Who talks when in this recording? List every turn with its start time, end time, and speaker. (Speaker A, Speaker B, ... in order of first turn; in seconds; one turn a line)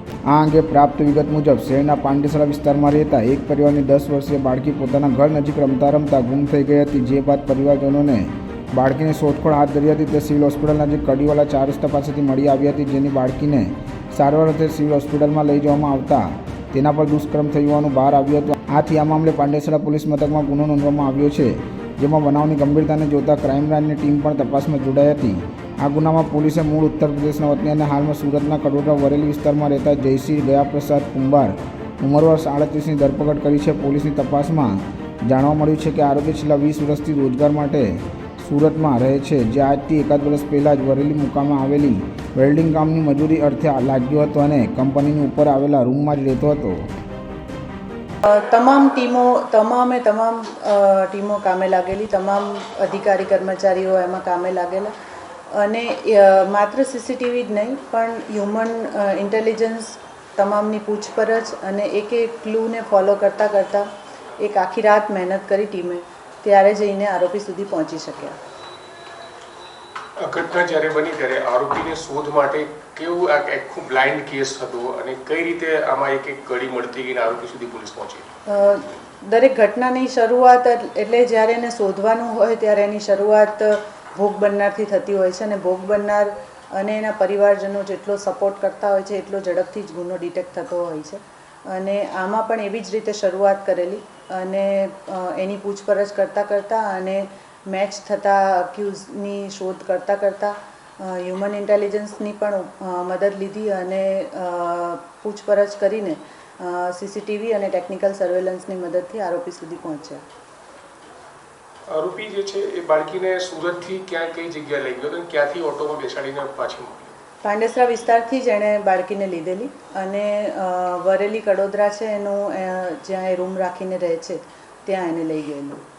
Speaker A: 0.3-46.8
Speaker B: 48.2-54.9
Speaker B: 55.5-68.4
Speaker C: 70.2-78.2
Speaker B: 78.5-110.2
Speaker C: 111.9-117.1
Speaker B: 117.4-125.8